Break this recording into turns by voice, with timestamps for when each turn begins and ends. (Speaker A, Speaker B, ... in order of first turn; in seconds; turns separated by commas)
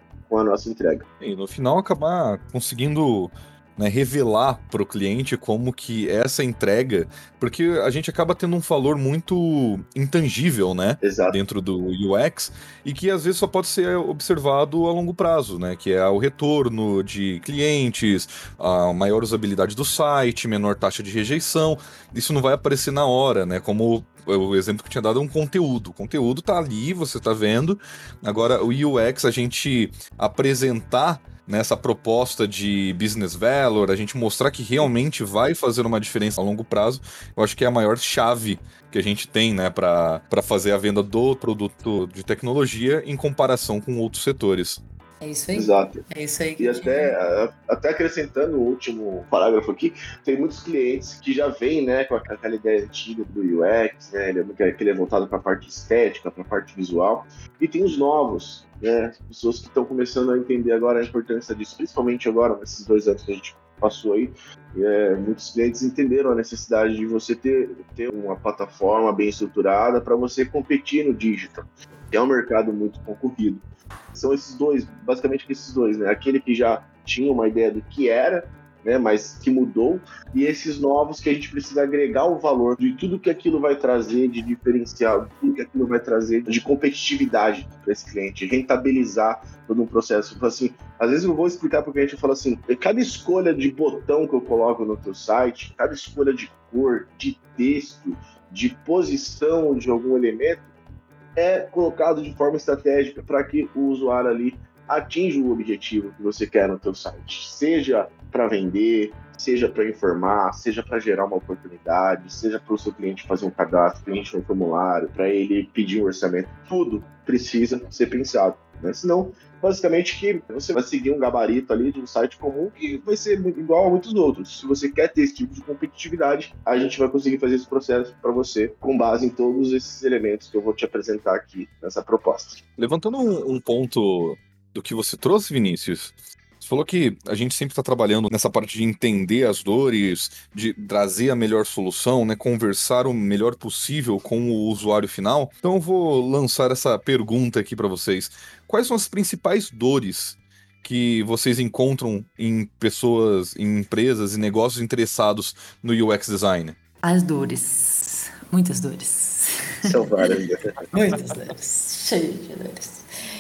Speaker A: 0.3-1.1, Speaker B: 1.2-44.8, Speaker A: 11.0-11.4, Speaker C: 45.2-47.1, Speaker A: 45.5-46.0, Speaker A: 46.6-100.7, Speaker A: 101.4-132.6, Speaker B: 132.8-156.8, Speaker C: 157.0-160.2, Speaker A: 159.8-160.6, Speaker C: 160.9-163.0